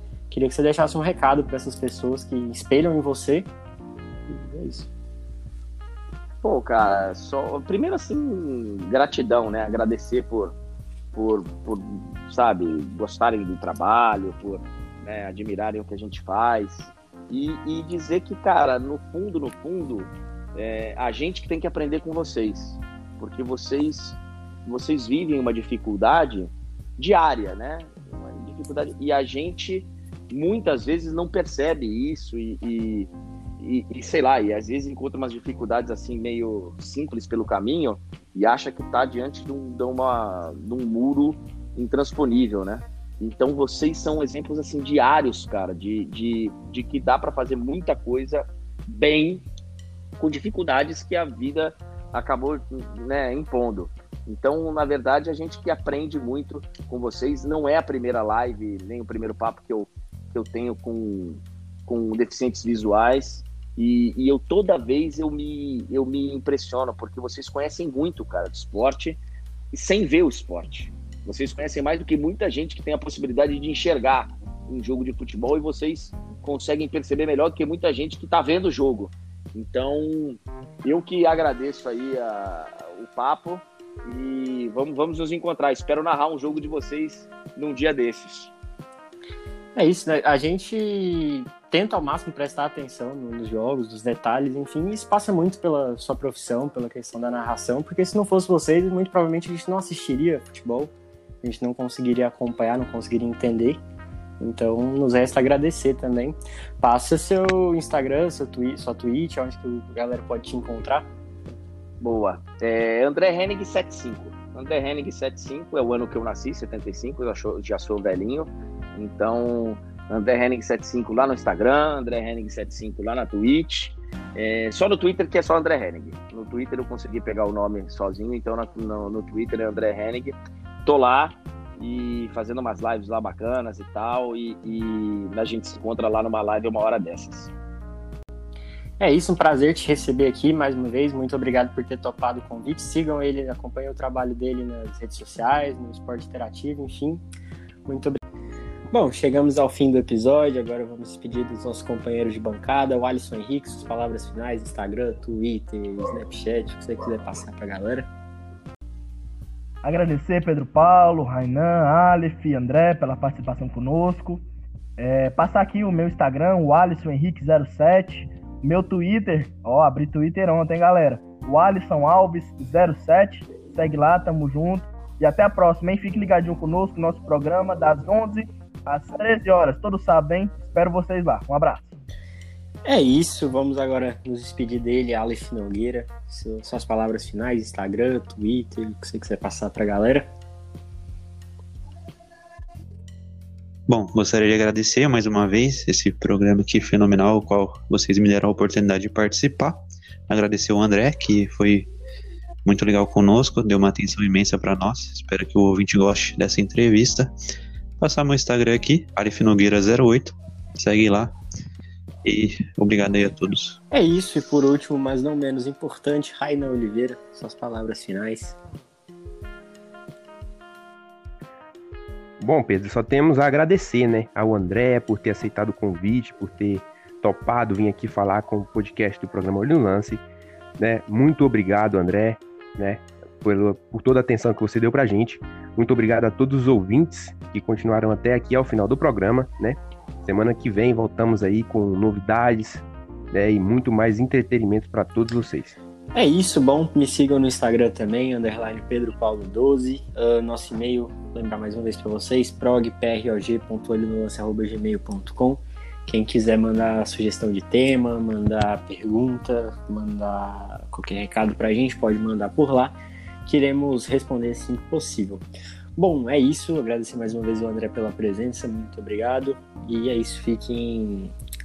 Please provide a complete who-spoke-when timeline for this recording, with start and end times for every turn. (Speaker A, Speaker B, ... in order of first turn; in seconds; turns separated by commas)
Speaker A: 0.3-3.5, Speaker B: 4.3-4.9, Speaker B: 6.4-10.6, Speaker B: 11.1-49.5, Speaker B: 50.2-69.2, Speaker B: 69.7-88.5, Speaker A: 89.7-103.8, Speaker A: 104.4-111.1, Speaker B: 112.0-137.5, Speaker A: 139.0-147.2, Speaker A: 147.8-148.2, Speaker A: 148.9-158.1, Speaker C: 159.8-164.4, Speaker C: 165.0-181.9, Speaker A: 182.8-190.3, Speaker D: 193.9-201.9, Speaker D: 202.6-207.3, Speaker D: 208.0-211.3, Speaker D: 212.2-213.8, Speaker A: 213.9-218.6, Speaker E: 222.4-230.2, Speaker E: 230.8-245.8, Speaker A: 246.1-262.9, Speaker A: 263.4-265.4, Speaker A: 266.0-271.3